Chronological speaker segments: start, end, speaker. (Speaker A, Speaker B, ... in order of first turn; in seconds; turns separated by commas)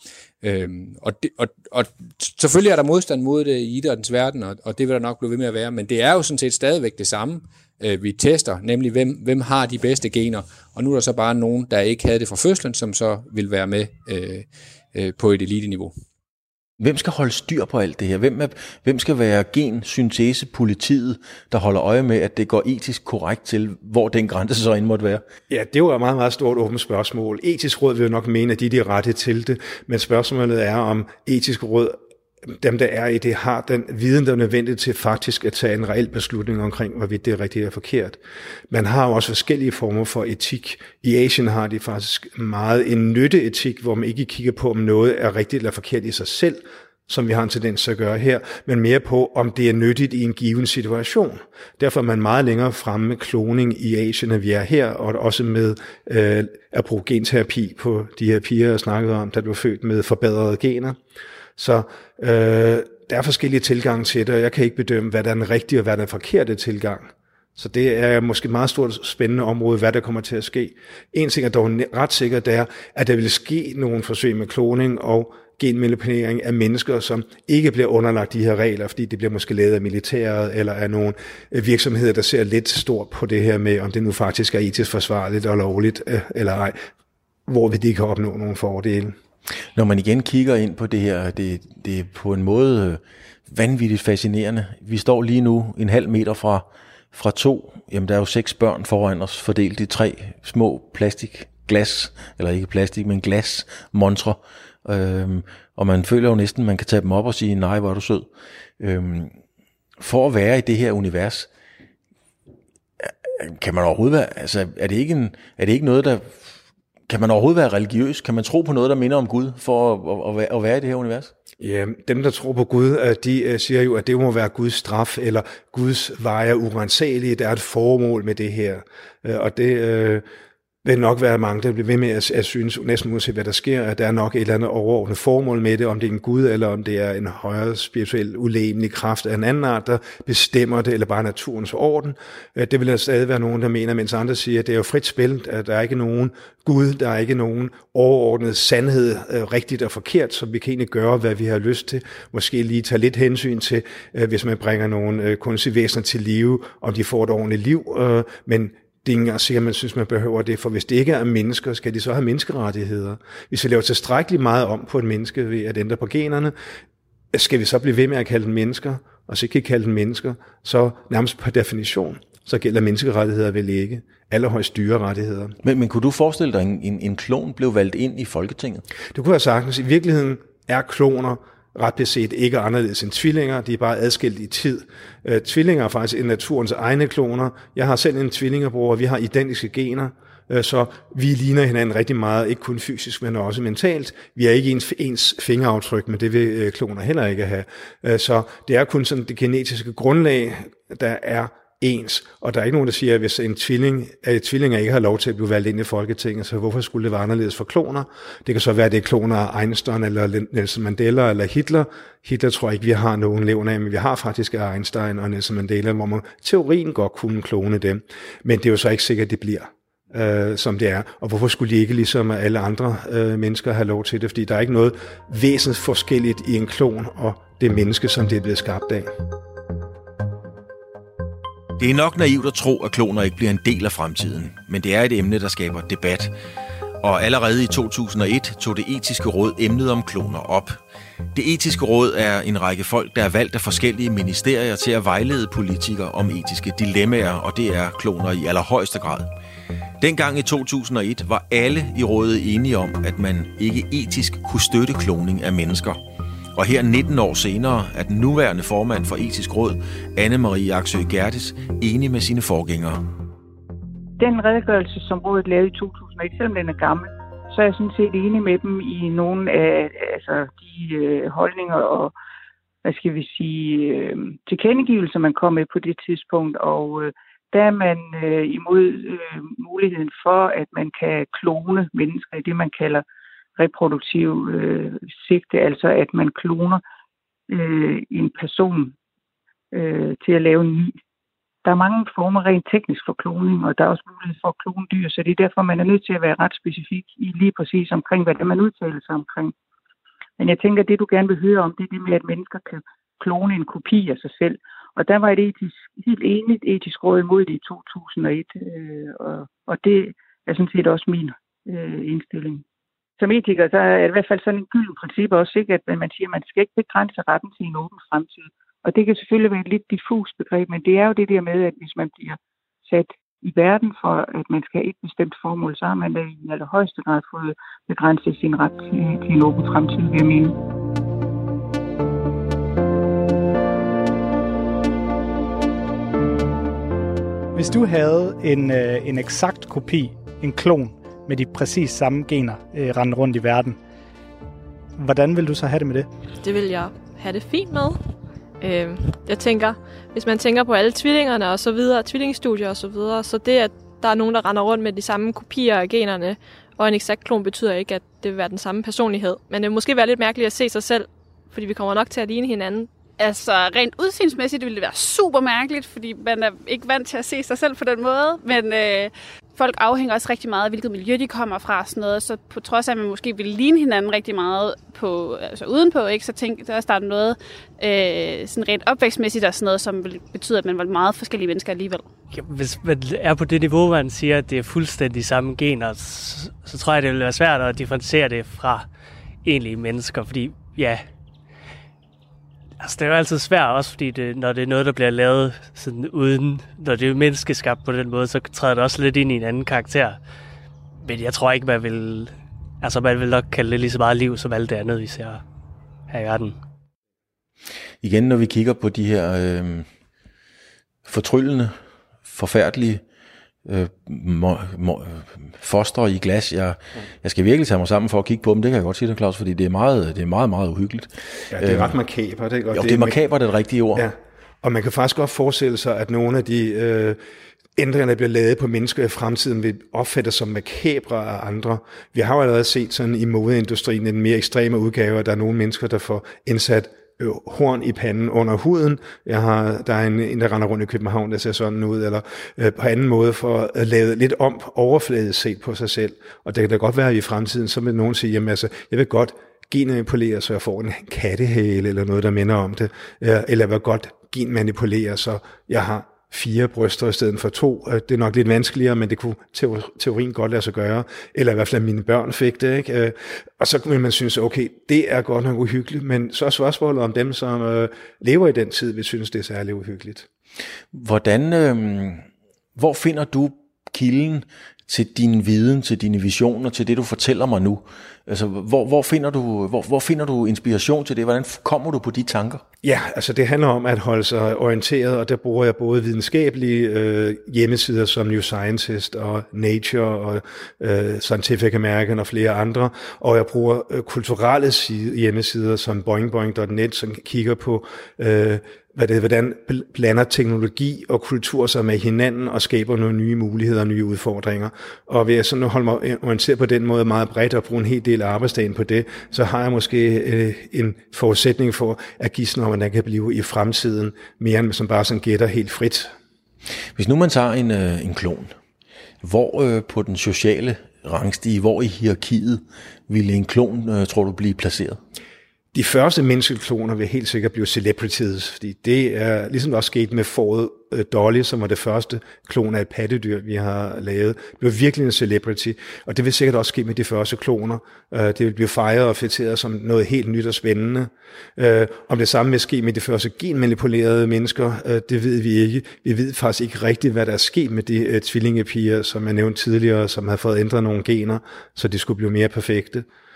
Speaker A: 0.4-15.9, Speaker B: 16.8-25.2, Speaker C: 25.5-38.2, Speaker C: 38.7-61.0, Speaker C: 61.6-86.8, Speaker C: 87.5-89.2, Speaker B: 89.8-108.3, Speaker B: 108.8-109.4, Speaker B: 110.0-111.5, Speaker B: 113.0-116.5, Speaker B: 117.1-121.3, Speaker C: 121.6-130.2, Speaker C: 130.8-166.6, Speaker C: 167.3-175.6, Speaker B: 175.6-178.8, Speaker C: 179.1-229.1, Speaker B: 231.8-236.3, Speaker B: 237.0-240.8, Speaker B: 241.3-249.3, Speaker B: 250.0-256.0, Speaker B: 256.6-263.0, Speaker D: 264.2-272.1, Speaker D: 272.9-283.0, Speaker D: 283.6-286.8, Speaker D: 287.5-288.9, Speaker D: 289.7-291.0, Speaker D: 291.6-299.5, Speaker D: 300.4-312.6, Speaker D: 313.2-330.6, Speaker E: 337.5-343.8, Speaker E: 345.0-346.1, Speaker F: 346.4-348.0, Speaker F: 348.6-362.9, Speaker G: 363.2-382.1, Speaker H: 382.3-388.9, Speaker H: 389.4-391.0, Speaker H: 392.8-400.2, Speaker H: 401.0-405.4, Speaker H: 406.1-406.6, Speaker B: 408.0-409.9, Speaker B: 411.1-413.0, Speaker B: 413.7-421.9, Speaker C: 421.5-423.2, Speaker B: 422.7-424.0, Speaker C: 423.9-427.2, Speaker C: 427.8-470.3, Speaker B: 470.9-482.6, Speaker C: 482.8-516.1, Speaker B: 517.0-518.5, Speaker B: 519.2-525.0, Speaker C: 525.7-553.1